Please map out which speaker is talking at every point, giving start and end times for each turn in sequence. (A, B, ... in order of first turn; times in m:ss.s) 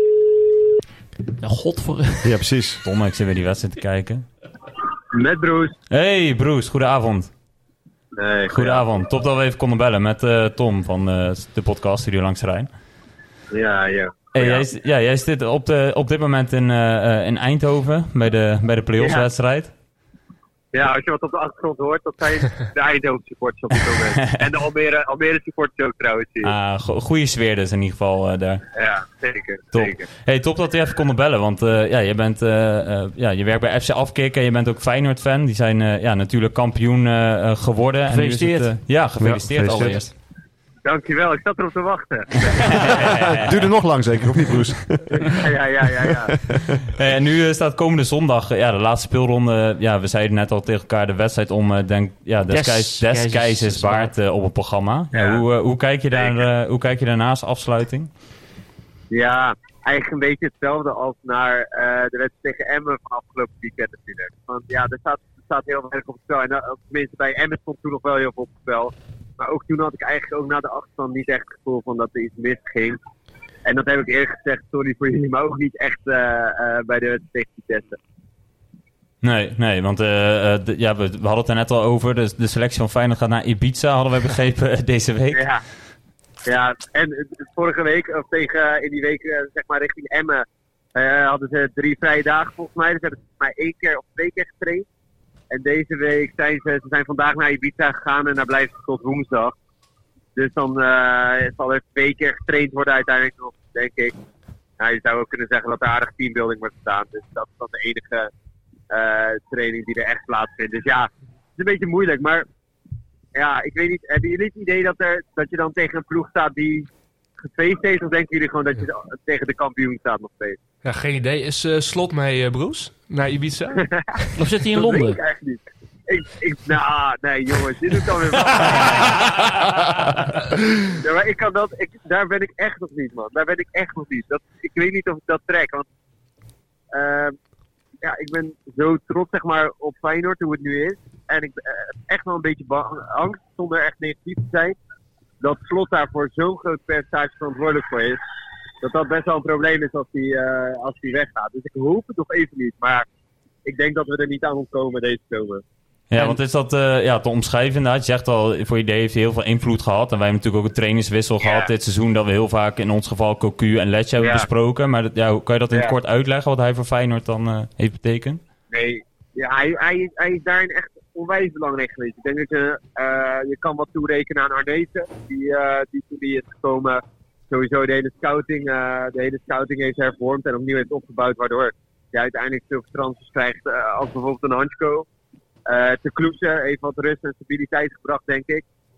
0:01.4-0:02.4 A
0:02.2-0:02.8 B
0:02.8-0:04.3 C
0:05.1-0:05.7 D
0:05.9-0:07.3 C
0:08.1-0:08.9 D
0:08.5-0:12.7 C
0:13.5-0:14.6 D
0:14.3-0:19.7 C
0:19.0-0:19.3 D
0:20.7-0:26.5 D
0:26.4-0:28.6 C
0:28.7-0:30.0 D
0:29.7-0:40.1 C
0:38.1-0:38.8 A
0:39.2-0:40.0 B
0:40.8-0:43.1 D
0:42.5-0:43.5 C
0:43.3-0:45.5 B
0:45.2-0:46.3 D
0:46.0-0:46.8 B
0:46.9-0:58.1 C
0:52.5-0:54.1 A
0:55.1-0:55.4 D
0:56.1-0:56.4 D
0:59.1-1:13.0 D
1:13.6-1:18.0 D
1:19.2-1:25.5 C
1:25.3-1:25.6 D
1:26.4-1:34.9 D
1:35.5-1:39.5 D
1:40.4-1:44.2 D
1:44.8-1:48.3 D
1:48.9-1:52.4 D
1:53.3-1:56.9 D
1:57.4-2:00.6 D
2:00.8-2:04.2 E
2:03.8-2:04.1 D
2:04.4-2:05.2 A
2:04.7-2:09.6 D
2:11.0-2:15.9 D
2:16.9-2:17.4 D
2:18.0-2:24.8 D
2:25.4-2:28.2 D
2:28.8-2:33.0 D
2:33.6-2:35.6 D
2:36.1-2:48.4 C
2:41.4-2:41.7 D
2:44.2-2:44.5 D
2:48.7-3:05.1 D
3:05.7-3:08.6 D